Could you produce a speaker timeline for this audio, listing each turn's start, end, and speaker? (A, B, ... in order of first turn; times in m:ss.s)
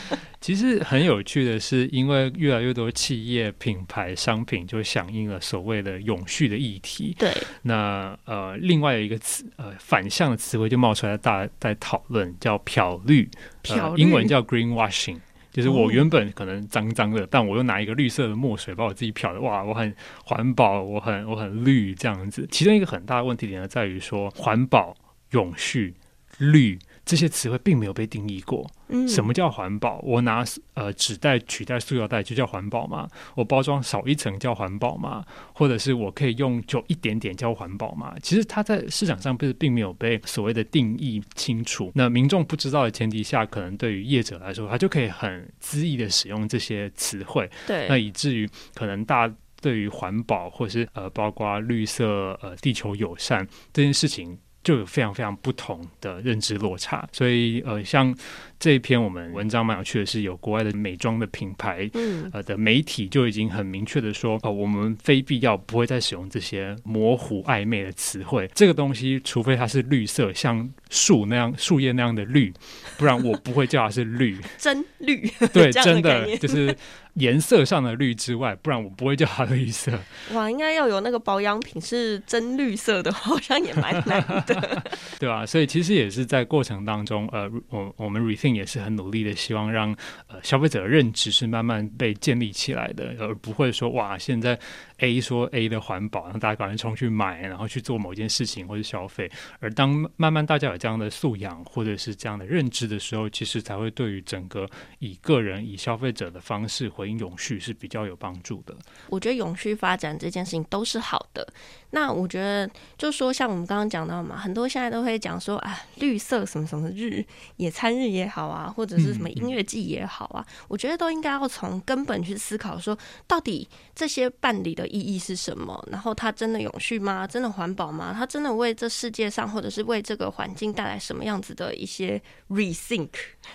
0:00.4-1:14.5 A
0:07.2-0:07.5 B
0:13.7-0:14.3 B
0:15.6-0:16.0 B
0:28.9-0:29.3 B
0:47.7-0:48.0 B
1:01.9-1:02.3 B
1:14.6-1:16.8 B
1:15.5-1:20.1 A
1:20.3-1:25.0 B
1:25.1-1:48.8 A
1:49.1-2:13.4 B
1:59.0-1:59.5 A